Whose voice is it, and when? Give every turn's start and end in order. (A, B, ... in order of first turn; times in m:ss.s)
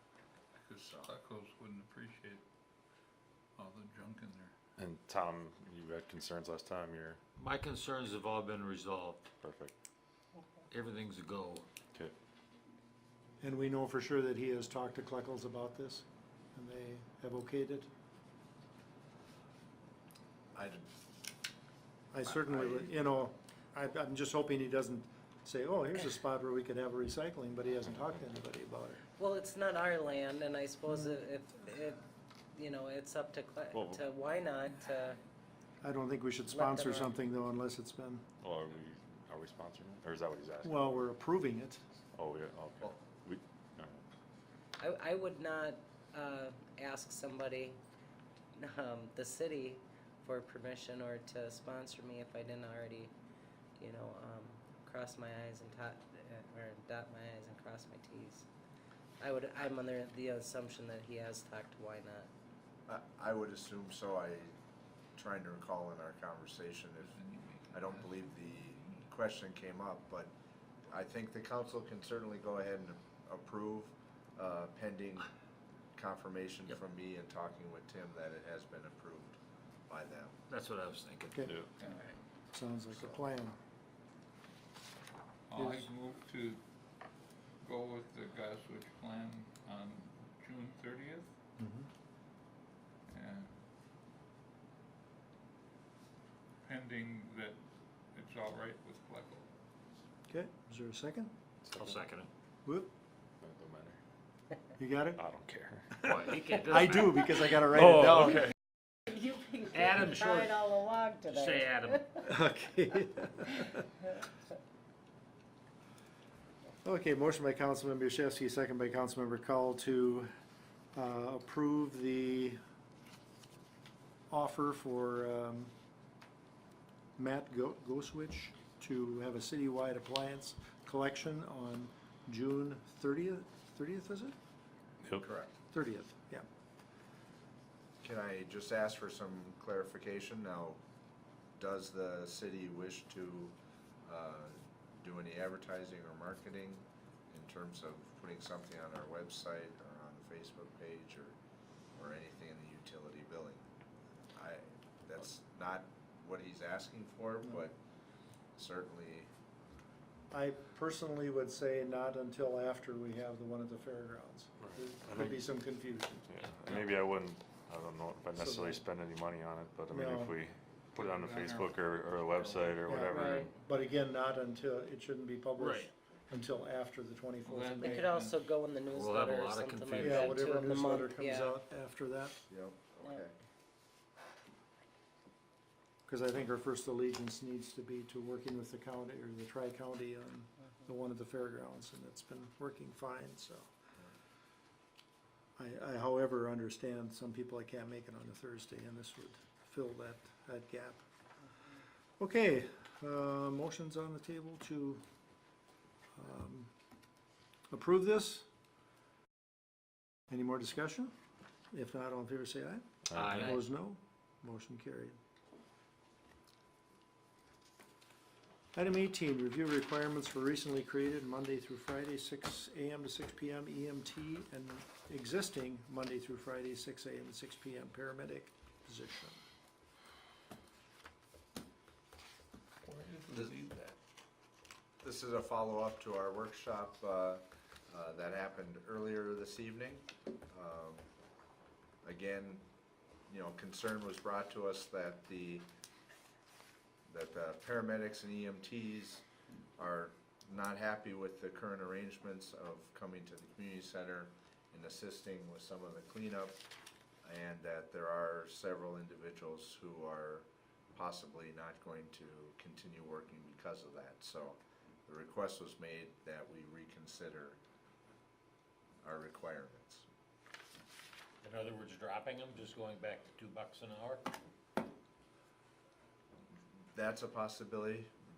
0:00.6-0:02.4 A
0:00.8-0:01.1 B
0:03.6-0:04.5 A
0:04.8-0:07.2 C
0:07.4-0:09.3 D
0:09.4-0:09.7 C
0:10.7-0:11.7 D
0:13.4-0:17.9 E
0:20.5-0:20.9 B
0:22.1-0:29.0 E
0:22.3-0:22.9 B
0:29.2-0:35.2 F
0:33.7-0:34.0 C
0:35.8-0:38.2 E
0:36.5-0:37.1 F
0:38.4-0:40.8 C
0:40.6-0:41.8 E
0:42.1-0:44.0 C
0:44.8-0:47.8 F
0:48.5-0:53.1 F
0:53.8-0:58.5 F
0:59.2-1:02.3 F
1:02.9-1:04.5 B
1:05.2-1:07.2 B
1:07.0-1:09.1 A
1:07.7-1:10.3 B
1:10.9-1:15.3 B
1:16.0-1:20.3 B
1:20.5-1:21.4 D
1:21.3-1:21.6 E
1:21.4-1:21.7 C
1:21.8-1:22.1 A
1:22.5-1:23.6 E
1:25.5-1:26.6 A
1:25.5-1:25.9 E
1:27.6-1:31.3 A
1:31.6-1:31.9 E
1:33.1-1:33.5 A
1:36.6-1:37.6 A
1:38.1-1:39.5 A
1:40.3-1:41.3 E
1:41.6-1:42.0 C
1:41.7-1:42.3 D
1:42.6-1:42.9 E
1:43.4-1:44.0 C
1:44.8-1:45.2 E
1:45.1-1:46.1 C
1:45.9-1:48.4 E
1:46.0-1:48.4 D
1:48.0-1:48.4 C
1:49.1-1:52.2 F
1:49.7-1:52.1 D
1:52.2-1:53.8 E
1:56.8-2:00.3 E
2:00.9-2:02.6 E
2:04.3-2:05.7 E
2:07.2-2:14.3 E
2:15.2-2:15.5 B
2:15.7-2:16.4 E
2:18.0-2:20.8 B
2:21.6-2:31.4 B
2:31.9-2:33.7 B
2:34.4-2:37.8 B
2:38.6-2:39.3 B
2:40.3-2:46.3 E
2:44.7-2:45.4 C
2:46.3-2:53.5 C
2:48.4-2:48.8 E
2:49.9-2:50.3 E
2:51.0-2:52.9 A
2:52.8-2:58.1 E
2:53.0-2:53.5 F
2:55.6-2:55.9 D
2:57.4-2:58.4 A
2:57.8-3:01.6 F
2:58.9-3:00.4 D
3:00.0-3:02.4 E
3:02.5-3:03.3 B
3:06.1-3:13.6 E
3:15.6-3:21.0 E
3:22.2-3:25.0 E
3:26.2-3:26.7 E
3:27.7-3:28.4 E
3:30.3-3:31.1 E
3:31.7-3:35.2 E
3:33.1-3:33.5 C
3:33.2-3:33.6 D
3:38.7-3:49.4 E
3:52.8-3:54.0 A
3:55.0-4:01.0 B
4:02.0-4:02.6 B
4:03.3-4:05.6 B
4:07.1-4:09.2 B
4:09.8-4:16.6 B
4:17.2-4:27.6 B
4:29.0-4:30.0 B
4:31.4-4:34.3 D
4:36.9-4:38.1 B